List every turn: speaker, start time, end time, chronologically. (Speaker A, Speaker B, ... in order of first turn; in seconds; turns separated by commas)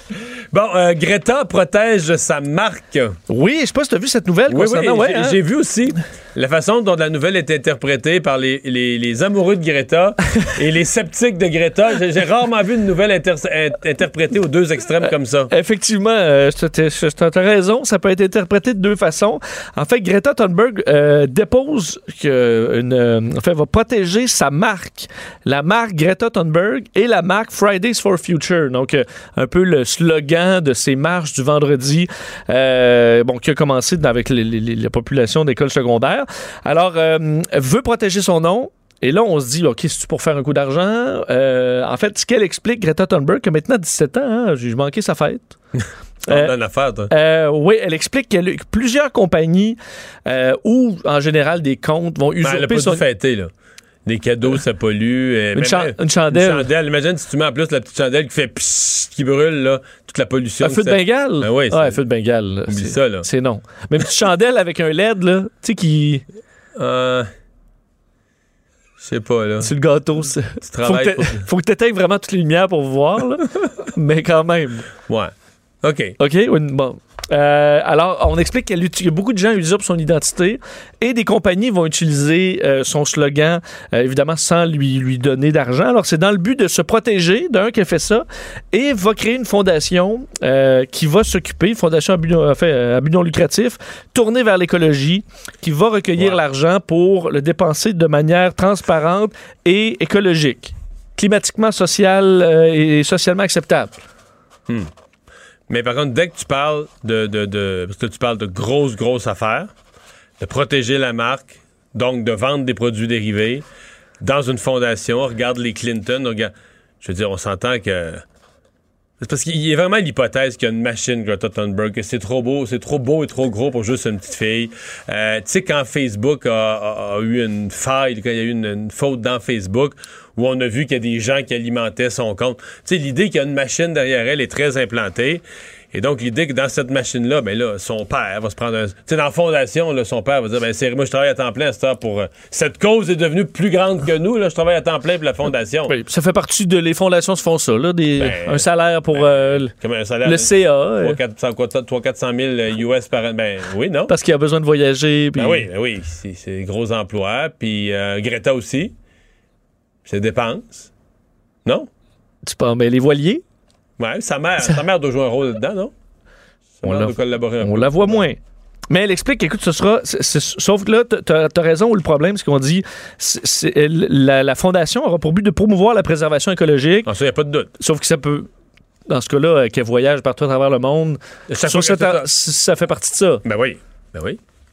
Speaker A: 0.5-3.2, Speaker B: 3.3-5.4, Speaker A: 4.5-15.5, Speaker B: 15.0-45.6, Speaker A: 45.8-47.1, Speaker B: 47.1-53.0, Speaker A: 52.4-53.5, Speaker A: 54.0-62.0, Speaker B: 55.5-56.7, Speaker B: 60.6-66.2, Speaker A: 62.7-63.2, Speaker A: 66.8-67.3, Speaker A: 69.0-69.7, Speaker B: 69.6-74.9, Speaker A: 70.6-71.4, Speaker A: 75.8-76.2, Speaker B: 76.2-104.0, Speaker A: 105.7-109.7, Speaker A: 110.4-113.6, Speaker A: 114.2-118.2, Speaker A: 119.2-145.9, Speaker B: 145.9-149.7, Speaker A: 148.2-154.1, Speaker B: 150.2-151.2, Speaker B: 154.1-155.7, Speaker A: 155.4-158.9, Speaker A: 160.1-160.9, Speaker B: 162.4-163.4, Speaker A: 164.0-165.9, Speaker A: 166.8-168.2, Speaker B: 166.8-168.4, Speaker B: 168.9-177.1, Speaker A: 177.1-177.7, Speaker B: 177.8-178.5, Speaker B: 179.1-183.4, Speaker A: 181.5-182.3, Speaker A: 183.4-184.4